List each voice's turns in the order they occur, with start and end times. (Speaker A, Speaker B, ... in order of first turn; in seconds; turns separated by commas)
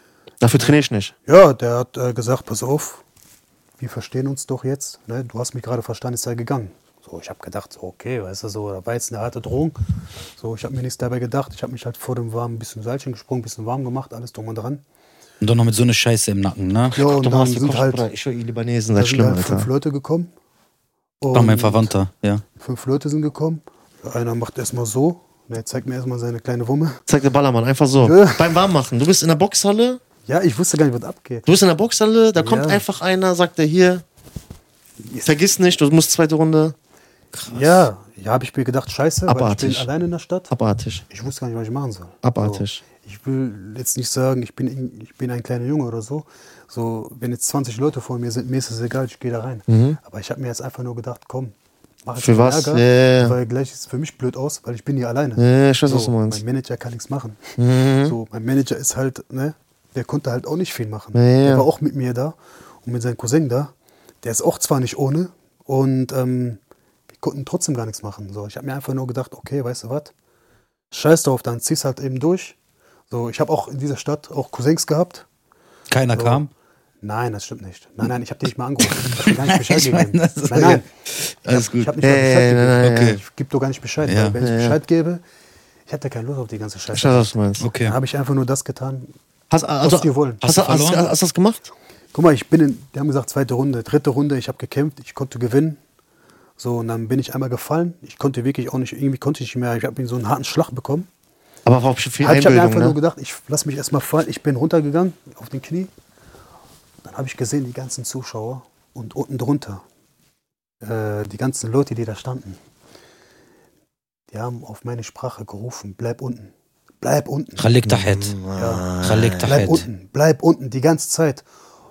Speaker A: 0.4-1.1, Speaker B: 1.3-3.0, Speaker B: 3.8-9.8, Speaker B: 10.4-14.8, Speaker C: 15.4-17.0, Speaker B: 16.9-18.1, Speaker A: 16.9-19.7, Speaker B: 18.9-20.3, Speaker B: 21.2-21.9, Speaker C: 21.3-22.4, Speaker B: 22.6-27.0, Speaker A: 27.1-30.0, Speaker B: 28.0-28.6, Speaker B: 30.3-31.5, Speaker A: 31.4-34.0, Speaker B: 32.4-32.8, Speaker A: 35.2-36.8, Speaker A: 37.5-37.9, Speaker B: 37.5-40.5, Speaker A: 39.3-39.9, Speaker A: 40.5-41.0, Speaker B: 41.1-51.5, Speaker A: 42.2-42.8, Speaker A: 49.7-50.0, Speaker B: 52.0-63.7, Speaker A: 52.2-53.4, Speaker A: 55.4-56.4, Speaker A: 57.6-58.1, Speaker A: 61.1-61.7, Speaker B: 64.2-66.6, Speaker B: 67.1-70.1, Speaker B: 70.9-72.6, Speaker B: 73.1-75.3, Speaker C: 75.9-76.5, Speaker B: 76.1-76.4, Speaker B: 77.0-80.9, Speaker C: 78.9-81.9, Speaker B: 81.4-85.2, Speaker A: 81.6-83.2, Speaker C: 82.8-83.2, Speaker C: 84.0-84.4, Speaker A: 84.4-84.8, Speaker B: 85.9-89.1, Speaker A: 86.9-87.7, Speaker C: 87.6-87.9, Speaker A: 89.5-91.6, Speaker B: 89.8-90.4, Speaker C: 90.4-91.1, Speaker B: 92.1-95.8, Speaker B: 96.6-101.1, Speaker A: 101.7-103.0, Speaker B: 102.2-105.9, Speaker B: 107.0-109.8, Speaker B: 110.8-112.6, Speaker B: 114.3-117.7, Speaker C: 117.6-118.3, Speaker A: 117.8-119.8, Speaker B: 118.5-121.4, Speaker C: 119.0-119.9